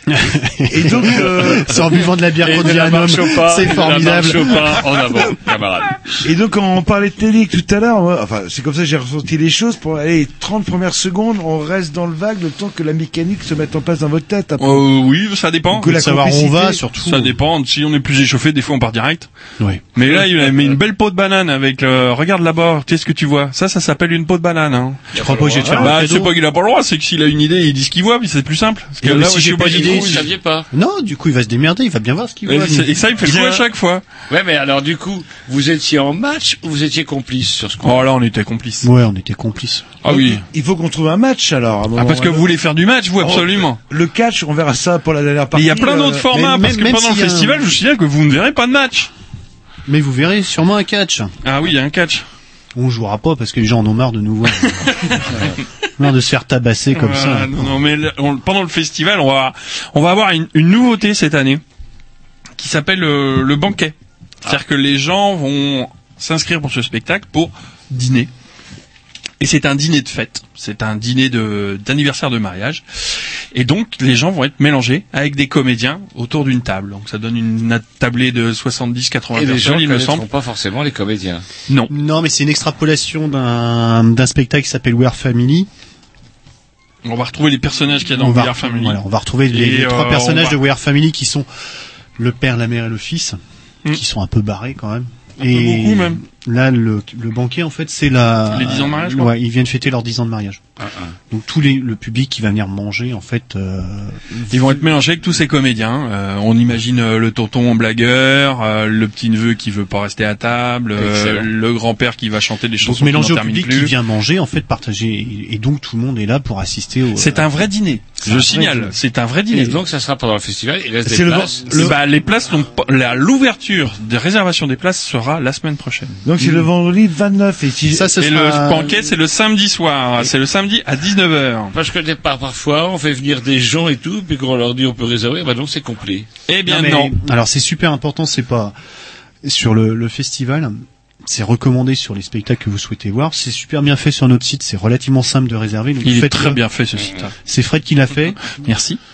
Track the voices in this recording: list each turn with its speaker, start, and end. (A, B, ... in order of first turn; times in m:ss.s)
0:00.1-0:05.0 A
0:00.7-0:01.8 B
0:02.4-0:06.0 C
0:06.2-0:14.9 B
0:14.6-0:16.0 D
0:15.7-0:16.7 B
0:15.8-0:17.4 A
0:16.9-0:19.3 D
0:19.9-0:25.1 D
0:25.1-0:26.0 C
0:25.1-0:26.4 A
0:25.6-0:30.3 D
0:29.0-0:33.6 A
0:29.6-0:30.7 C
0:32.5-0:34.0 D
0:34.3-0:38.1 C
0:37.8-0:38.9 D
0:38.8-0:40.0 A
0:40.0-0:40.4 D
0:40.0-0:42.5 B
0:42.0-0:43.8 D
0:43.2-0:46.3 B
0:45.5-0:49.1 D
0:46.3-0:47.7 A
0:49.9-0:51.3 A
0:51.4-0:52.3 D
0:52.8-0:55.5 A
0:56.0-0:57.7 A
0:56.9-1:01.6 D
1:02.6-1:08.3 D
1:09.4-1:12.8 D
1:13.5-1:20.2 D
1:19.3-1:21.4 C
1:21.9-1:25.7 A
1:27.0-1:30.6 D
1:28.1-1:31.5 A
1:32.2-1:33.4 A
1:33.9-1:40.6 A
1:35.4-1:36.2 D
1:38.5-1:39.3 D
1:40.8-1:41.1 C
1:41.3-1:44.9 A
1:44.5-1:53.9 D
1:51.0-1:51.5 C
1:52.8-1:57.7 A
1:57.2-1:59.8 D
1:58.2-1:59.0 A
1:59.5-2:01.9 C
2:01.1-2:02.0 B
2:01.7-2:06.1 D
2:06.2-2:08.2 B
2:07.9-2:09.0 A
2:08.2-2:11.8 D
2:11.7-2:16.3 C
2:16.5-2:17.2 D
2:16.7-2:18.8 A
2:19.4-2:26.6 A
2:26.0-2:27.3 D
2:27.4-2:28.6 A
2:28.6-2:29.0 D